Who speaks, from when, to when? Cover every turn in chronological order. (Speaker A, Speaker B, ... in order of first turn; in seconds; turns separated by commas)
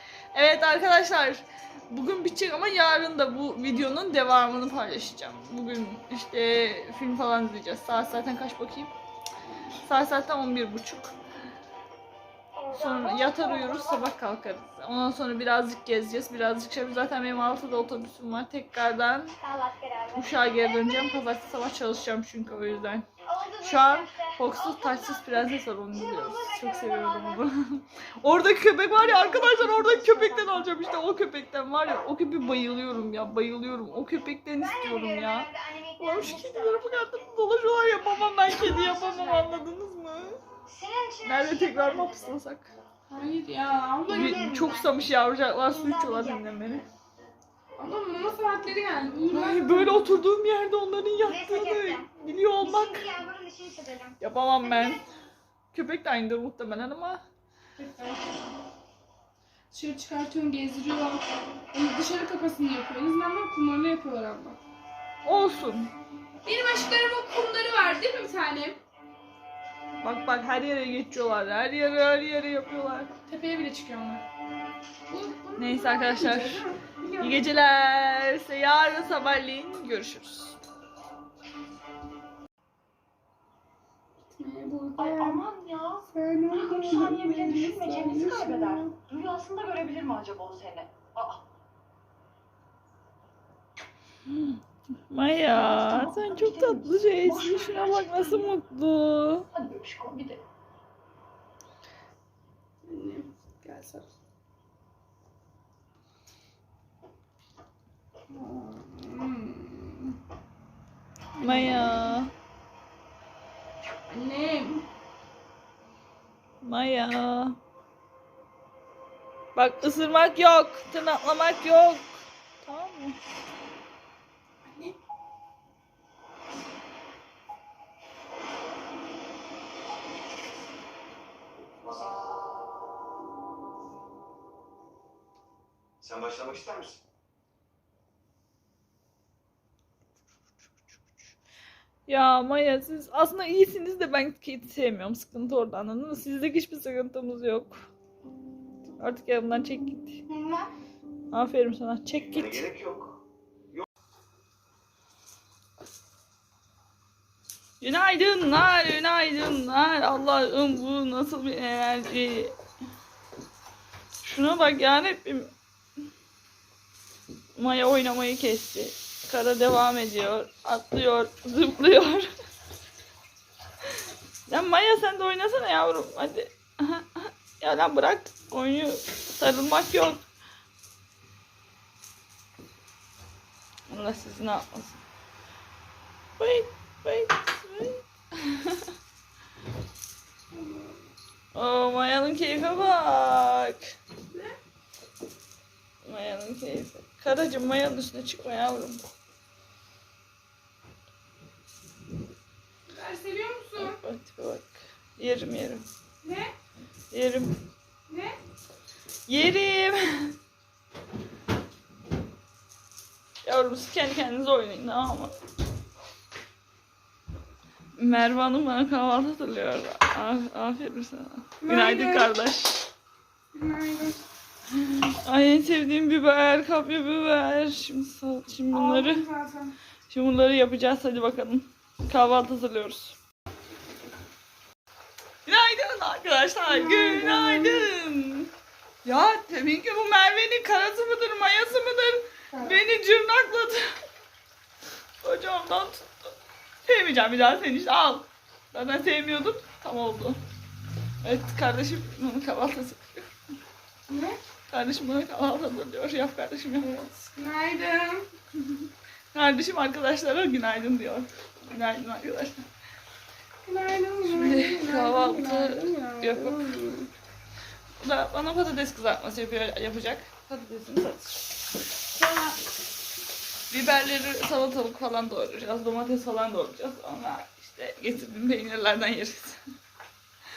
Speaker A: 0.3-8.9, Speaker A: 9.8-11.1, Speaker B: 12.6-14.2, Speaker A: 12.7-19.4, Speaker B: 19.4-21.6, Speaker A: 20.1-23.1, Speaker B: 23.2-27.4, Speaker A: 23.6-40.4, Speaker C: 29.0-30.6, Speaker B: 29.2-30.4, Speaker B: 34.6-39.7, Speaker B: 40.7-42.4, Speaker A: 41.2-42.7, Speaker C: 43.1-44.5, Speaker B: 44.0-46.8, Speaker A: 44.1-46.8, Speaker C: 47.8-50.2, Speaker A: 49.3-53.1, Speaker B: 51.2-55.0, Speaker A: 54.2-55.0, Speaker A: 55.7-57.2, Speaker C: 57.8-58.4, Speaker C: 59.7-64.6, Speaker A: 65.2-65.9, Speaker C: 66.4-68.8, Speaker A: 70.0-73.1, Speaker C: 73.3-74.2, Speaker C: 75.1-77.6, Speaker A: 75.6-76.6, Speaker A: 77.2-80.6, Speaker C: 84.4-85.5, Speaker D: 85.0-91.4, Speaker C: 86.1-88.9, Speaker A: 94.2-94.6, Speaker A: 95.1-99.5, Speaker D: 95.5-98.5, Speaker D: 99.5-100.4, Speaker C: 102.8-104.0, Speaker C: 108.3-110.2, Speaker C: 111.3-112.2, Speaker A: 111.4-112.3, Speaker C: 114.1-114.9, Speaker A: 116.6-117.5, Speaker A: 119.5-123.2, Speaker E: 131.8-132.2, Speaker E: 136.0-137.0, Speaker A: 142.1-147.8, Speaker A: 149.0-150.2, Speaker B: 150.3-150.7, Speaker A: 151.3-152.7, Speaker E: 152.3-153.2, Speaker A: 157.8-162.5, Speaker A: 164.2-165.5, Speaker A: 167.6-172.3, Speaker A: 174.5-180.2, Speaker A: 183.9-185.0, Speaker A: 186.4-188.8, Speaker C: 190.5-191.0, Speaker A: 191.5-193.9, Speaker A: 196.0-199.1, Speaker C: 202.9-204.0, Speaker A: 203.8-205.8, Speaker C: 206.2-206.5, Speaker A: 207.1-207.6, Speaker C: 208.1-208.4, Speaker A: 209.3-210.3, Speaker A: 213.4-215.3, Speaker A: 218.0-222.9, Speaker C: 221.6-222.3, Speaker C: 223.5-224.2, Speaker A: 224.7-229.2, Speaker C: 228.7-229.7, Speaker A: 230.1-233.1, Speaker A: 235.4-238.5, Speaker C: 236.7-237.9, Speaker A: 239.0-244.0, Speaker C: 242.5-242.8, Speaker A: 245.2-246.3, Speaker A: 246.8-250.4, Speaker A: 251.2-253.3, Speaker C: 254.1-254.4, Speaker A: 254.7-256.9, Speaker C: 256.8-258.2, Speaker A: 259.3-262.6, Speaker C: 263.6-267.1, Speaker A: 264.3-266.7, Speaker A: 268.0-272.6, Speaker A: 273.7-279.6